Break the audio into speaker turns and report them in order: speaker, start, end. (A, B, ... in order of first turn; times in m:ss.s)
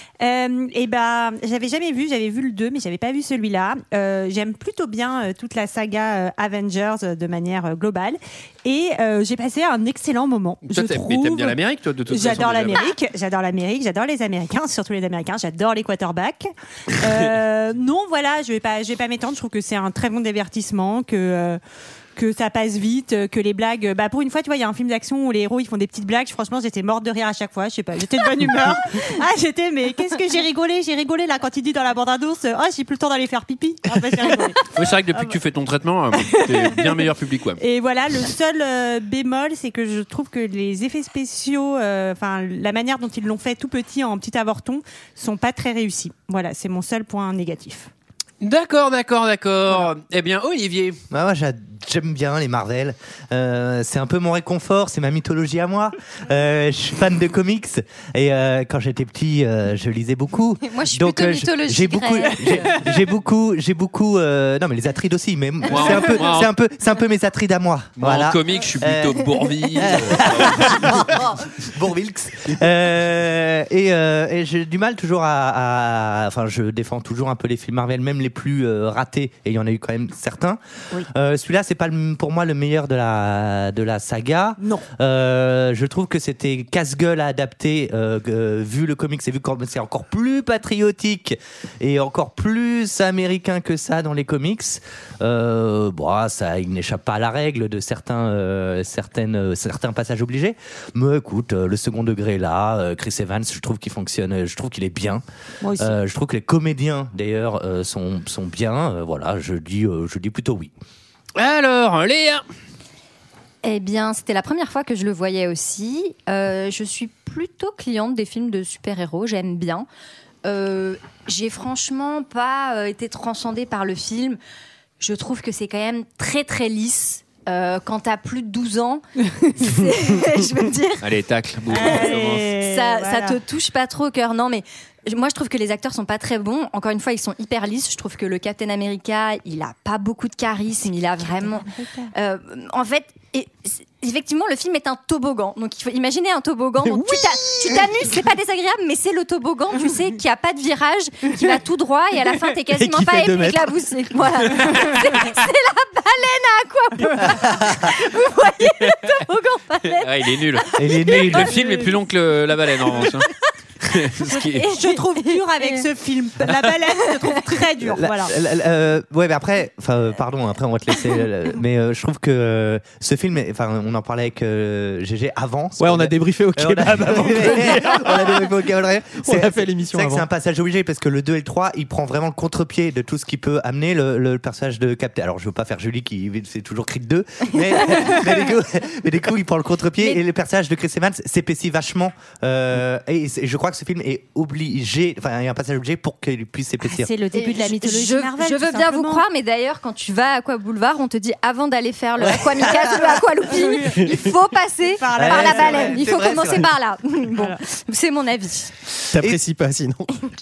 0:00.2-0:11.6 A
0:10.7-0:12.8 B
0:12.1-0:21.6 A
0:22.2-0:35.3 A
0:34.7-0:37.6 B
0:36.2-0:37.0 A
0:37.6-0:47.9 A
0:48.4-0:51.0 B
0:51.1-1:45.2 C
1:00.6-1:02.8 D
1:05.6-1:06.5 B
1:08.0-1:11.0 B
1:24.6-1:24.8 A
1:45.6-1:45.9 A
1:45.8-1:50.7 C
1:51.4-1:52.4 B
1:53.6-1:59.9 D
2:00.4-2:04.4 D
2:05.0-2:09.0 D
2:09.6-2:11.0 D
2:11.0-2:12.4 B
2:11.7-2:13.4 A
2:11.8-2:41.3 D
2:26.8-2:28.1 E
2:32.7-2:33.8 E
2:34.5-2:35.3 B
2:39.9-2:43.3 B
2:40.8-2:41.6 C
2:43.8-2:44.7 B
2:44.4-2:48.3 A
2:44.7-2:45.9 D
2:47.0-2:47.4 D
2:47.8-3:17.1 C
2:55.8-2:58.5 E
2:59.2-3:00.2 E
3:16.8-3:19.2 A
3:17.3-3:28.7 D
3:22.2-3:23.2 C
3:23.6-3:24.1 A
3:25.0-3:26.0 A
3:25.1-3:26.7 C
3:29.1-3:30.1 E